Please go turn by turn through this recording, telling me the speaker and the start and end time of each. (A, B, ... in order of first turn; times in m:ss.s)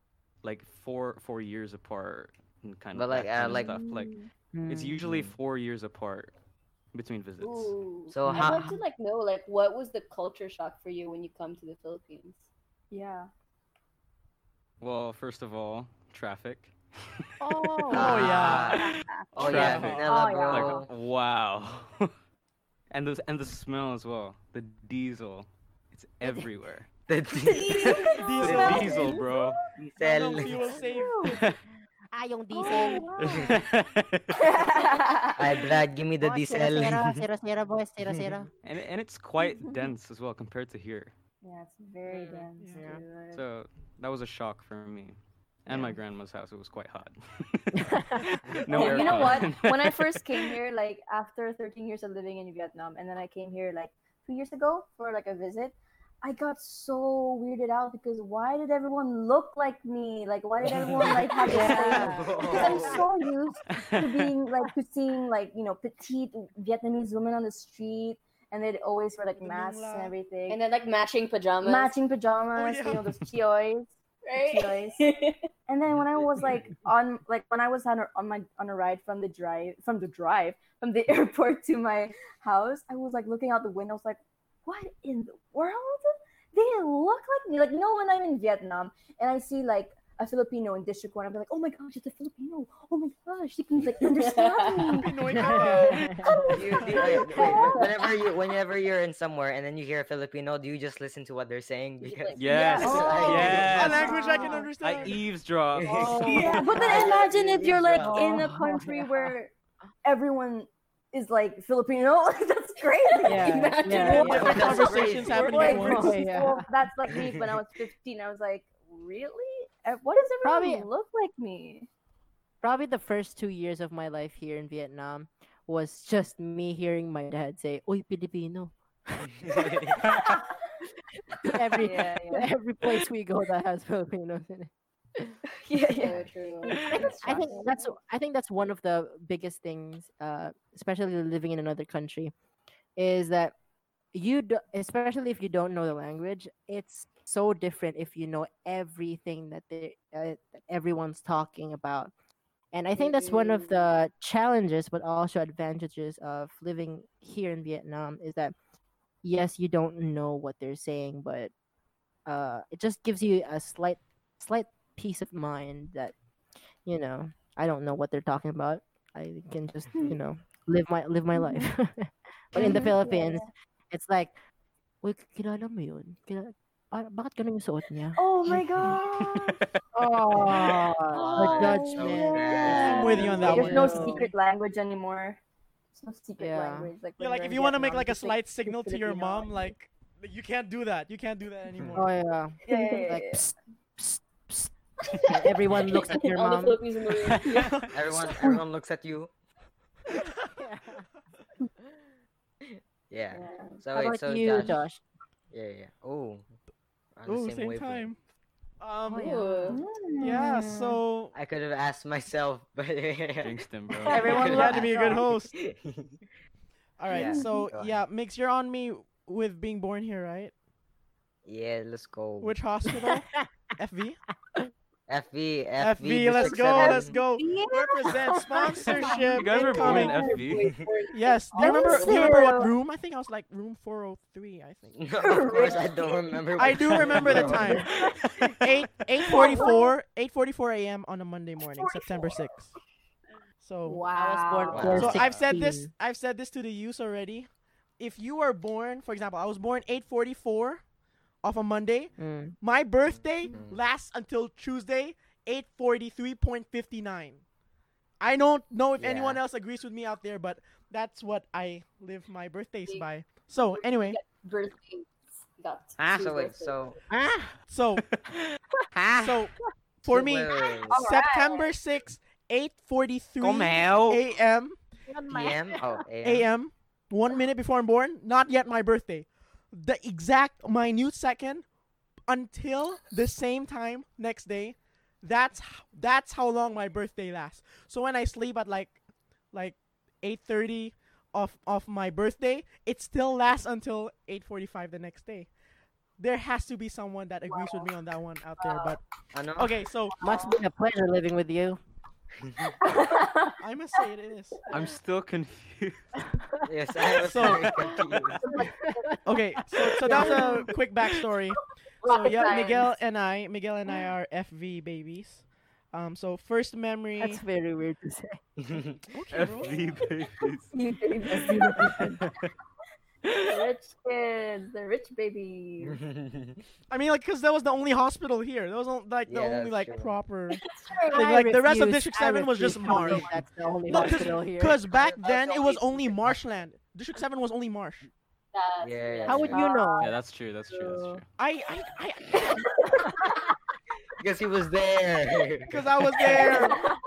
0:00.4-0:06.3 A
0:02.9-0:03.8 B
0:03.5-0:04.3 C
0:04.5-0:05.0 D
0:05.0-0:05.4 B
0:06.9-0:07.7 A
0:07.4-0:12.5 E
0:08.1-0:08.7 B
0:08.2-0:08.8 D
0:12.9-0:13.3 C
0:14.8-0:16.7 A
0:17.4-0:18.3 D
0:17.6-0:17.9 A
0:17.9-0:18.8 F
0:17.9-0:18.8 B
0:18.8-0:19.4 C
0:19.3-0:20.9 B
0:19.4-0:20.2 F
0:19.4-0:22.1 A
0:20.0-0:20.9 C
0:22.9-0:26.9 A
0:27.1-0:28.0 B
0:27.5-0:29.5 C
0:27.8-0:28.4 E
0:28.1-0:29.2 F
0:28.4-0:29.6 A
0:29.8-0:30.7 B
0:30.0-0:31.4 F
0:30.9-0:31.4 C
0:31.2-0:31.6 A
0:32.1-0:33.1 D
0:32.5-0:33.6 C
0:33.2-0:34.5 A
0:34.4-0:35.4 C
0:35.4-0:37.2 B
0:36.2-0:38.5 D
0:38.6-0:41.1 A
0:39.4-0:39.9 C
0:41.4-0:43.4 C
0:42.1-0:43.0 D
0:42.6-0:42.8 F
0:43.3-0:50.5 A
0:45.7-0:46.0 D
0:47.8-0:48.3 D
0:48.7-1:10.6 C
1:00.6-1:01.2 B
1:01.5-1:03.0 E
1:01.5-1:02.7 D
1:02.0-1:03.0 B
1:03.8-1:04.0 A
1:09.3-1:10.1 F
1:10.5-1:11.9 E
1:11.6-1:15.0 C
1:12.5-1:13.1 F
1:14.2-1:15.5 E
1:15.7-1:35.7 C
1:34.0-1:35.0 E
1:34.9-1:36.2 F
1:35.3-1:36.3 D
1:36.2-1:37.8 C
1:36.5-1:43.9 B
1:37.3-1:37.7 D
1:42.0-1:44.5 E
1:42.4-1:44.2 A
1:42.8-1:44.7 C
1:43.5-1:45.2 F
1:44.8-1:47.1 A
1:45.7-1:47.9 B
1:45.9-1:47.1 D
1:46.2-1:49.5 C
1:46.3-1:47.2 E
1:48.0-1:49.3 D
1:50.0-2:01.9 C
1:53.2-1:56.1 E
1:53.2-1:54.8 D
1:53.9-1:56.2 F
1:54.3-1:55.6 B
1:55.5-1:56.7 D
1:57.1-1:57.4 B
2:00.4-2:00.9 D
2:02.6-2:10.0 D
2:09.4-2:10.0 B
2:11.3-2:15.4 D
2:11.8-2:12.5 C
2:15.6-2:17.9 C
2:16.0-2:17.6 E
2:16.8-2:22.3 D
2:23.0-2:23.6 D
2:24.1-2:32.1 D
2:32.7-2:38.5 D
2:33.0-2:33.8 E
2:39.2-2:41.5 D
2:42.2-2:46.1 D
2:46.8-2:54.4 D
2:51.3-2:51.7 C
2:52.5-2:53.5 C
2:55.0-2:58.3 D
2:58.2-2:59.6 C
2:59.3-2:59.7 A
2:59.9-3:04.3 D
3:01.1-3:03.9 B
3:01.2-3:05.4 C
3:02.7-3:03.1 E
3:02.8-3:04.2 F
3:05.9-3:09.7 C
3:06.4-3:06.9 D
3:07.2-3:12.1 F
3:11.9-3:16.8 D
3:12.7-3:13.4 C
3:15.7-3:17.6 E
3:17.5-3:18.4 F
3:17.9-3:19.3 B
3:20.1-3:20.5 F
3:20.5-3:21.0 D
3:22.7-3:24.8 B
3:23.3-3:23.8 C
3:23.9-3:25.0 D
3:25.5-3:26.5 B
3:27.2-3:28.1 B
3:27.2-3:28.2 F
3:28.8-3:29.3 F
3:29.0-3:30.4 D
3:29.2-3:29.8 E
3:29.7-3:31.0 C
3:30.2-3:31.3 F
3:31.3-3:36.2 B
3:33.4-3:34.4 A
3:34.1-3:35.2 C
3:34.3-3:35.5 F
3:37.0-3:40.5 F
3:37.1-3:38.0 B
3:37.1-3:37.7 C
3:41.4-3:42.5 B
3:42.4-3:44.2 F
3:42.9-3:43.4 D
3:45.1-3:47.2 B
3:45.8-3:50.4 F
3:46.3-3:50.9 C
3:49.1-3:50.7 A
3:49.6-3:52.3 E
3:51.1-3:55.0 F
3:51.5-3:52.7 C
3:55.0-3:57.7 B
3:55.2-3:55.9 C
3:56.6-3:57.9 F
3:57.0-3:58.1 C
3:57.4-3:57.8 D
3:58.2-3:58.5 A
3:58.6-4:02.7 F
3:59.2-3:59.9 C
4:03.6-4:04.0 F
4:03.9-4:04.8 E
4:04.1-4:05.9 D
4:04.1-4:05.0 C
4:04.7-4:05.2 B
4:04.8-4:10.8 F
4:04.9-4:05.5 A
4:11.4-4:17.4 F
4:12.2-4:12.6 D
4:13.0-4:13.8 B
4:18.2-4:24.2 F
4:19.0-4:19.4 B
4:23.7-4:26.9 E
4:26.0-4:26.3 A
4:26.1-4:27.0 B
4:27.1-4:27.5 D
4:27.7-4:28.0 F
4:28.9-4:29.4 A
4:29.1-4:29.5 F
4:30.0-4:34.8 F
4:30.0-4:31.0 B
4:31.0-4:31.3 C
4:33.4-4:34.2 A
4:35.1-4:35.9 D
4:35.3-4:36.4 B
4:36.2-4:41.6 F
4:42.3-4:49.0 F
4:49.5-4:55.5 F
4:56.2-4:59.0 F
4:57.5-4:57.8 C
4:58.6-4:58.9 C
4:59.3-4:59.7 B
4:59.6-5:00.1 F
5:00.2-5:00.5 C
5:00.2-5:01.8 D
5:02.4-5:02.7 B
5:02.8-5:03.6 C
5:03.6-5:04.6 F
5:04.7-5:06.2 A
5:06.6-5:08.4 B
5:07.2-5:07.7 F
5:07.4-5:07.7 A
5:08.5-5:10.7 D
5:09.2-5:17.4 F
5:10.1-5:10.6 C
5:12.1-5:12.8 C
5:12.2-5:12.8 E
5:12.4-5:12.7 D
5:17.2-5:18.4 D
5:18.7-5:18.9 B
5:19.1-5:20.0 F
5:19.3-5:20.8 A
5:20.7-5:22.2 C
5:21.5-5:22.5 A
5:21.8-5:22.1 D
5:23.4-5:26.0 C
5:25.8-5:26.6 B
5:26.9-5:30.6 F
5:29.3-5:30.1 B
5:30.6-5:31.3 E
5:31.1-5:33.3 F
5:31.1-5:34.8 D
5:33.9-5:38.1 F
5:34.9-5:36.2 B
5:38.5-5:39.7 E
5:38.8-5:39.6 B
5:39.2-5:40.1 D
5:39.5-5:40.1 C
5:40.0-5:41.2 A
5:41.4-5:42.6 F
5:44.2-5:45.7 B
5:45.7-5:46.8 F
5:46.3-5:46.7 C
5:46.4-5:46.9 E